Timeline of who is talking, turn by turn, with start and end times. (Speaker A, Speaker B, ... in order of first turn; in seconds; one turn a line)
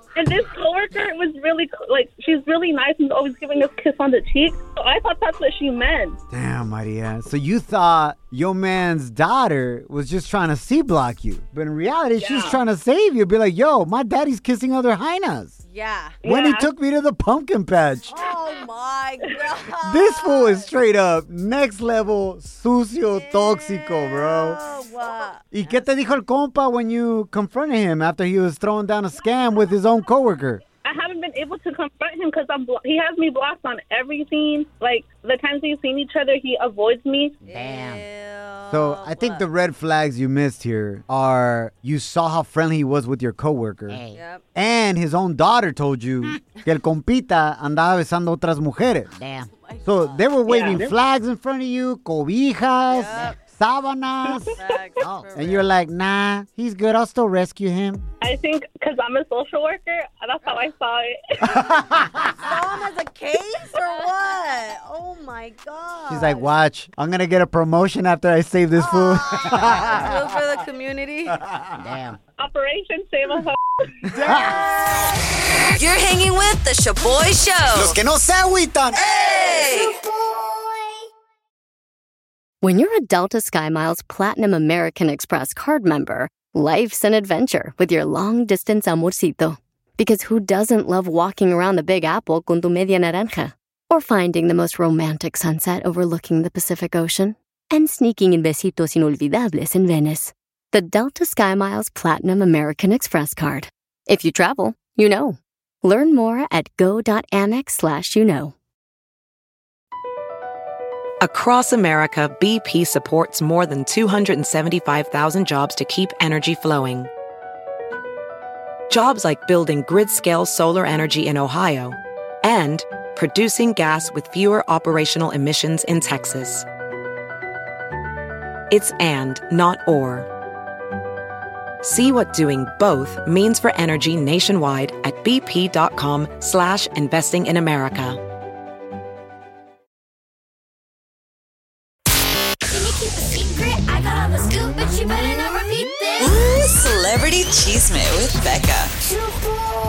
Speaker A: 0.2-6.2
Speaker B: 6.3-15.6
Speaker A: 12.2-12.6
Speaker C: 15.7-16.2
Speaker A: 16.2-16.7
Speaker B: 16.2-18.2
Speaker C: 18.1-20.7
Speaker B: 19.8-24.6
Speaker C: 23.1-25.8
Speaker B: 25.5-30.6
Speaker A: 30.8-37.4
Speaker D: 37.4-38.0
Speaker C: 37.5-39.5
Speaker B: 38.7-44.0
Speaker D: 43.9-44.2
Speaker C: 44.1-44.4
Speaker B: 44.5-49.1
Speaker D: 49.1-49.5
Speaker C: 49.6-50.3
Speaker B: 49.9-54.5
Speaker A: 50.5-50.9
Speaker C: 52.9-53.4
Speaker C: 54.5-55.7
Speaker D: 55.0-55.9
Speaker B: 55.4-58.0
Speaker A: 58.2-61.7
Speaker B: 61.5-62.0
Speaker C: 62.2-66.5
Speaker B: 66.1-70.2
Speaker C: 68.8-71.4
Speaker D: 71.8-72.2
Speaker A: 72.4-74.0
Speaker B: 74.1-74.6
Speaker D: 74.3-74.5
Speaker C: 74.4-78.0
Speaker B: 77.7-79.2
Speaker C: 79.0-80.0
Speaker E: 82.6-108.5
Speaker F: 111.2-117.1
Speaker F: 118.9-126.7
Speaker F: 128.7-130.3
Speaker F: 131.8-138.2
Speaker C: 143.9-145.0